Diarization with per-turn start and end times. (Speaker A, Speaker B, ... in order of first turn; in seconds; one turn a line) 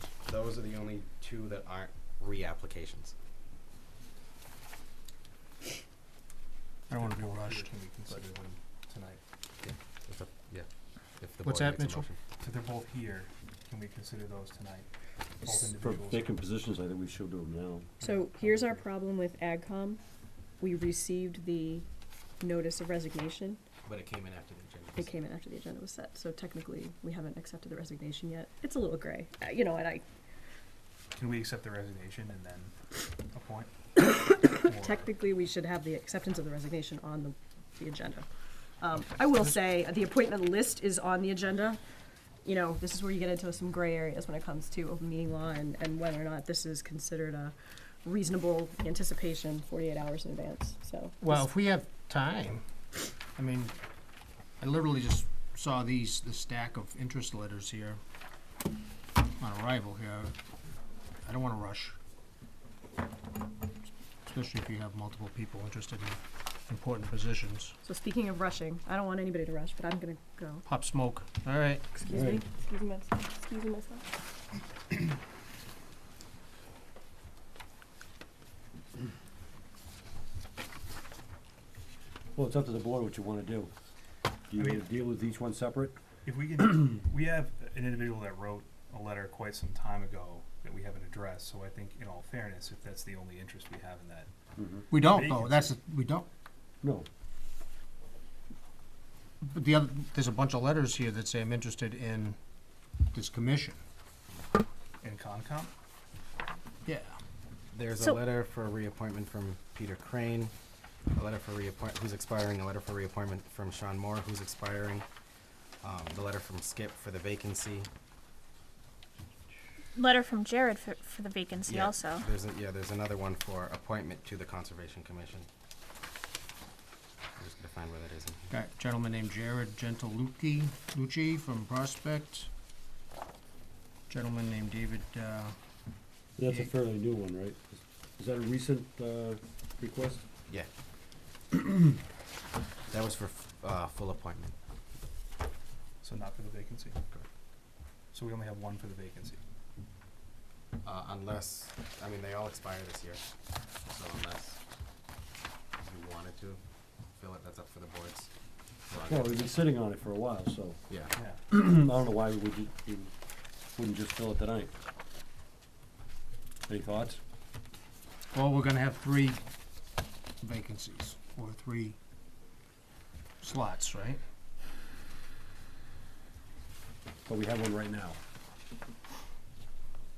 Speaker A: 0.2-3.1
Speaker B: 6.9-8.2
Speaker C: 7.0-9.2
Speaker A: 9.6-12.2
Speaker B: 11.4-12.1
Speaker C: 12.4-14.9
Speaker C: 15.4-16.2
Speaker D: 15.5-17.9
Speaker E: 18.0-20.0
Speaker C: 18.1-18.8
Speaker E: 20.6-21.9
Speaker E: 22.4-23.6
Speaker A: 23.8-25.1
Speaker E: 24.9-30.0
Speaker C: 31.1-32.7
Speaker C: 33.3-33.7
Speaker E: 34.0-38.3
Speaker C: 34.7-35.0
Speaker E: 38.8-41.8
Speaker B: 39.2-39.5
Speaker E: 42.4-51.4
Speaker B: 51.2-52.6
Speaker B: 53.4-53.7
Speaker B: 54.6-58.0
Speaker B: 59.4-60.3
Speaker B: 61.2-62.0
Speaker B: 64.2-67.8
Speaker E: 67.8-70.6
Speaker B: 70.6-71.9
Speaker E: 72.0-74.1
Speaker D: 72.1-72.4
Speaker D: 82.3-83.7
Speaker D: 84.5-86.0
Speaker C: 86.2-94.3
Speaker D: 94.5-94.9
Speaker B: 94.9-96.3
Speaker C: 95.1-95.7
Speaker D: 96.8-97.1
Speaker B: 99.4-102.4
Speaker B: 103.1-103.8
Speaker C: 105.0-105.7
Speaker B: 106.8-107.1
Speaker A: 107.7-110.5
Speaker A: 111.1-115.0
Speaker A: 115.8-117.9
Speaker F: 120.0-122.2
Speaker A: 121.7-125.5
Speaker A: 127.4-128.5
Speaker B: 128.5-132.5
Speaker B: 134.1-135.5
Speaker D: 136.4-140.2
Speaker A: 142.9-144.6
Speaker C: 146.0-147.0
Speaker C: 148.1-149.4
Speaker A: 150.8-153.2
Speaker A: 153.7-154.6
Speaker A: 155.8-158.3
Speaker A: 158.8-159.6
Speaker D: 159.0-160.8
Speaker A: 160.9-161.1
Speaker D: 161.5-163.1
Speaker D: 163.8-164.7
Speaker D: 166.7-167.2
Speaker B: 168.3-169.4
Speaker B: 170.4-172.0
Speaker B: 173.4-174.2
Speaker D: 177.2-178.2